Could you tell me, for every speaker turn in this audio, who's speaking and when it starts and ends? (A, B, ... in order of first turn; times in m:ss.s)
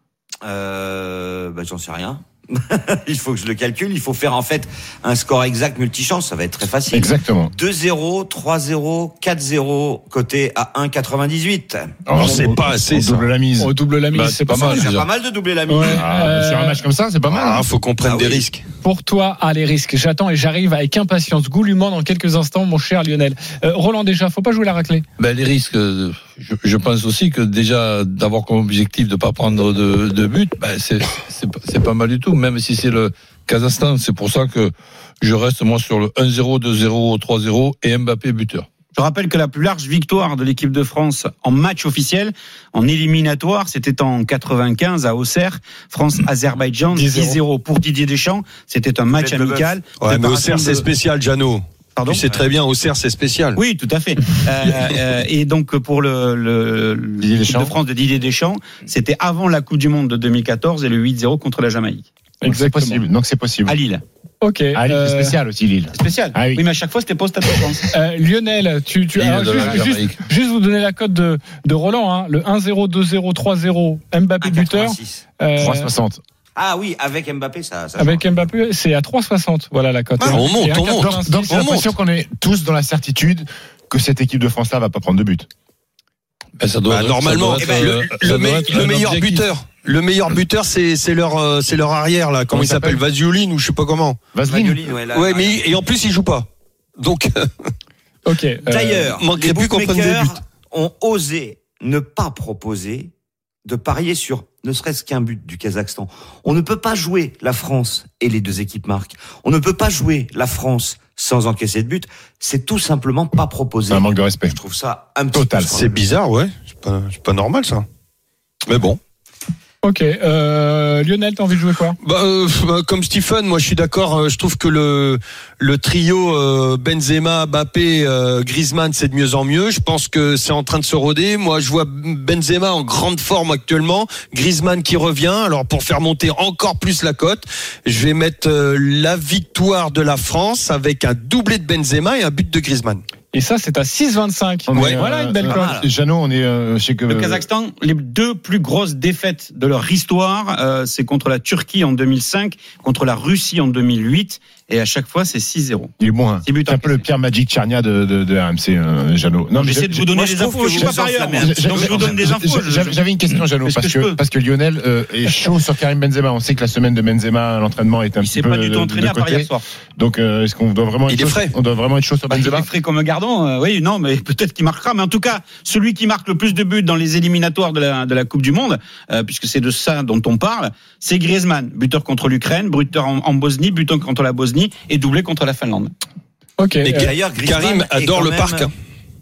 0:00.4-0:12.0 A
0:06.9-0:07.5 B
0:12.1-0:13.7 B
0:12.1-0:13.2 C
0:13.6-0:14.9 D
0:14.1-0:15.1 E
0:14.5-0:16.1 A
0:15.7-0:16.8 D
0:15.8-0:17.7 B
0:17.3-0:18.6 C
0:18.0-0:18.4 A
0:18.8-0:25.0 D
0:25.2-0:38.7 E
0:38.9-0:50.8 F
0:46.9-0:47.4 D
0:49.1-0:49.7 A
0:50.0-0:53.6 C
0:52.0-0:52.2 F
0:53.6-1:02.1 F
0:57.2-0:57.7 B
1:02.4-1:03.0 D
1:02.4-1:03.7 B
1:03.6-1:04.0 F
1:04.4-1:05.4 D
1:04.7-1:06.6 B
1:05.9-1:07.9 F
1:07.9-1:15.9 D
1:09.1-1:10.2 E
1:14.4-1:15.2 A
1:15.6-1:16.2 B
1:16.6-1:18.4 A
1:18.0-1:21.6 D
1:20.2-1:21.9 C
1:20.9-1:25.5 B
1:26.6-1:29.5 E
1:26.9-1:34.3 C
1:27.6-1:28.0 A
1:32.5-1:33.0 B
1:34.3-1:34.8 B
1:34.4-1:35.8 A
1:35.1-1:36.5 C
1:37.0-1:37.7 C
1:38.2-1:39.0 D
1:38.7-1:43.1 A
1:39.0-1:40.4 C
1:43.6-1:56.0 A
1:53.9-1:54.6 B
1:55.3-1:55.8 B
1:55.7-1:57.8 C
1:58.7-1:59.0 C
1:59.8-2:02.0 D
2:02.0-2:23.0 C
2:23.3-2:25.7 D
2:24.7-2:27.4 B
2:24.7-2:25.0 C
2:25.4-2:25.9 A
2:27.1-2:35.9 F
2:36.0-2:40.1 B
2:36.4-2:37.1 F
2:39.6-2:44.2 F
2:40.1-2:42.3 A
2:40.7-2:52.7 B
2:48.2-2:49.6 F
2:51.1-2:51.5 C
2:52.3-3:05.9 F
3:06.6-3:07.1 D
3:06.8-3:08.7 C
3:06.9-3:08.7 A